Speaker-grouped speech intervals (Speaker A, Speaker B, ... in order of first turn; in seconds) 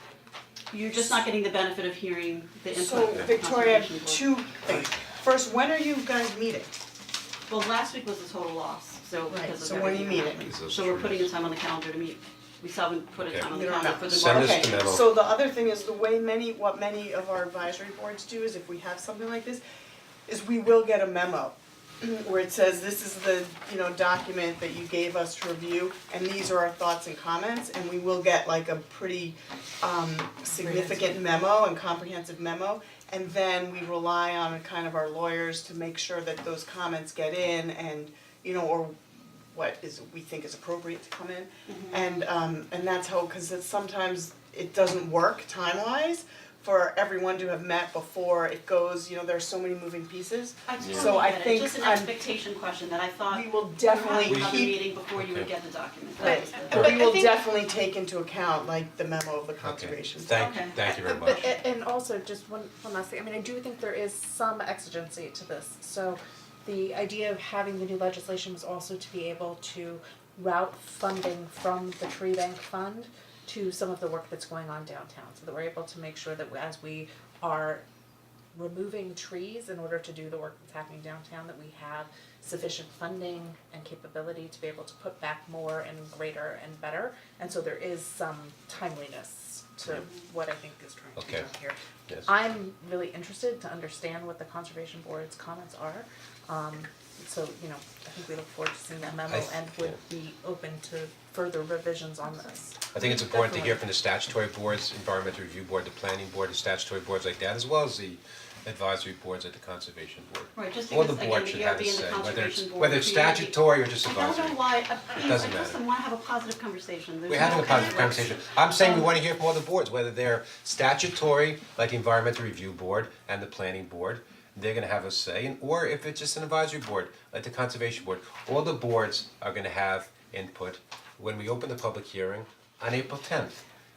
Speaker A: 0.7-4.5, 7.5-14.8, 41.7-42.2, 50.7-56.9, 60.3-61.6, 103.0-103.8, 110.5-119.1
Speaker B: 2.7-6.8, 9.3-10.6, 13.5-19.6, 20.3-39.0, 39.5-52.1, 53.3-54.8, 56.2-60.5
Speaker C: 10.4-11.3, 13.2-13.5, 14.1-15.1, 50.8-51.1, 54.3-55.5, 59.6-61.4, 91.2-91.5, 99.3-100.0, 102.9-114.6, 115.2-115.8, 117.3-133.6
Speaker D: 56.2-57.4, 60.9-77.8, 78.5-103.5